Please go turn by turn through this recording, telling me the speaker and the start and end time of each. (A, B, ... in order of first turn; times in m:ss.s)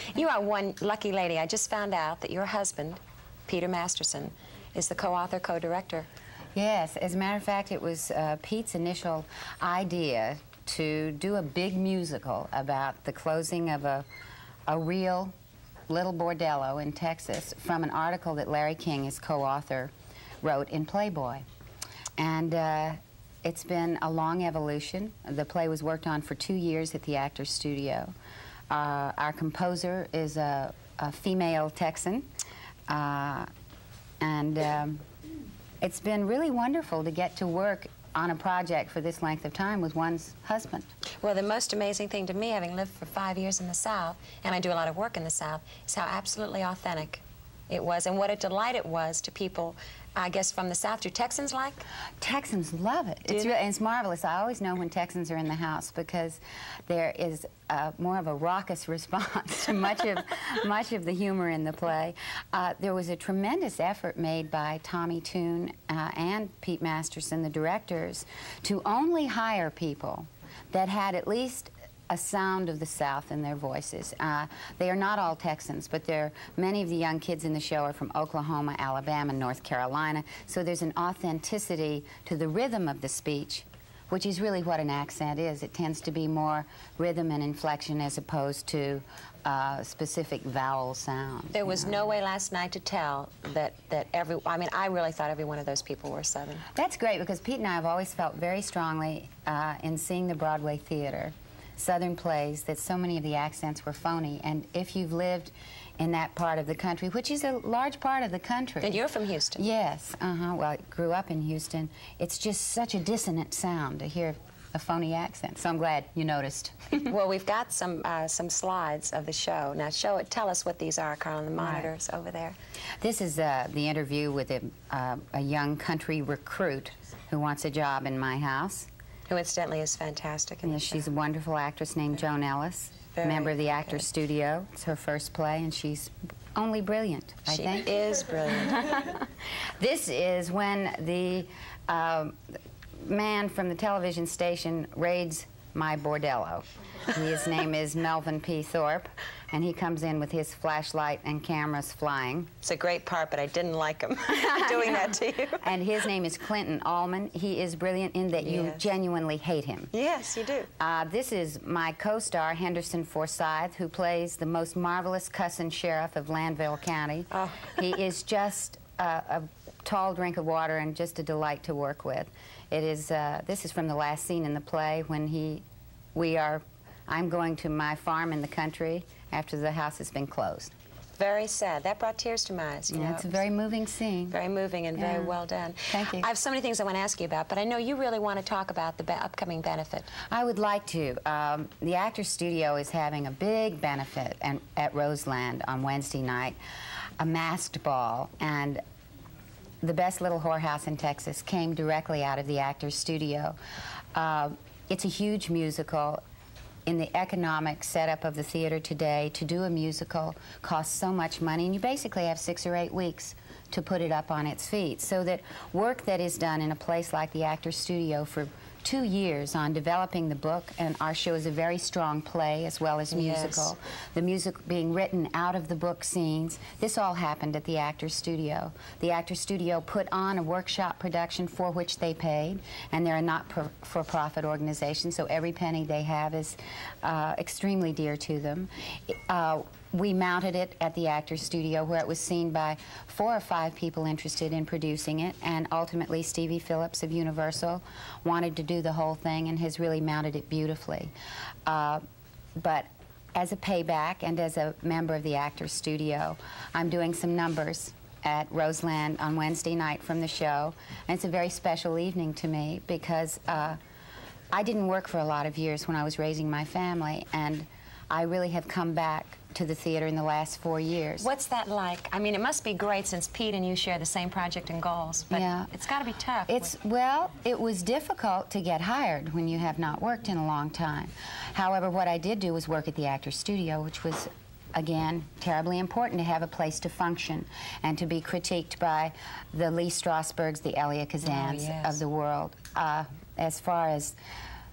0:00.1-0:06.1 A
0:06.6-0:14.0 B
0:14.7-0:15.3 B
0:15.9-0:21.4 B
0:22.2-0:28.1 B
0:28.7-0:32.3 B
0:32.9-0:33.5 B
0:34.2-0:35.0 B
0:35.8-0:40.9 B
0:41.2-0:51.8 A
0:52.2-1:32.0 B
0:53.3-0:53.5 A
1:31.5-1:36.6 A
1:36.7-1:49.0 B
1:48.8-1:49.6 A
1:49.6-1:57.1 B
1:56.9-2:02.6 A
2:01.6-2:01.9 B
2:03.0-2:08.9 B
2:09.3-2:11.0 A
2:10.6-2:17.9 B
2:13.1-2:14.0 A
2:17.5-2:19.0 A
2:18.7-2:19.2 B
2:19.8-2:22.4 B
2:23.0-2:32.5 B
2:32.6-2:35.7 A
2:34.4-2:35.0 B
2:35.6-2:39.9 B
2:38.4-2:38.9 A
2:39.9-2:40.7 A
2:40.8-2:55.6 B
2:47.3-2:47.8 A
2:56.1-3:00.7 B
3:01.2-3:03.4 A
3:02.9-3:04.4 B
3:04.3-3:10.1 A
3:05.0-3:05.4 B
3:05.9-3:06.3 B
3:10.3-3:16.6 B
3:17.2-3:18.8 B
3:19.8-3:23.6 B
3:24.1-3:26.2 B
3:26.8-4:11.1 B
3:43.1-3:43.7 A
4:11.6-4:12.0 B
4:12.6-4:23.8 B
4:24.5-4:31.3 B
4:31.2-4:36.7 A
4:35.3-4:35.7 B
4:36.5-4:54.1 B
4:51.2-4:52.0 A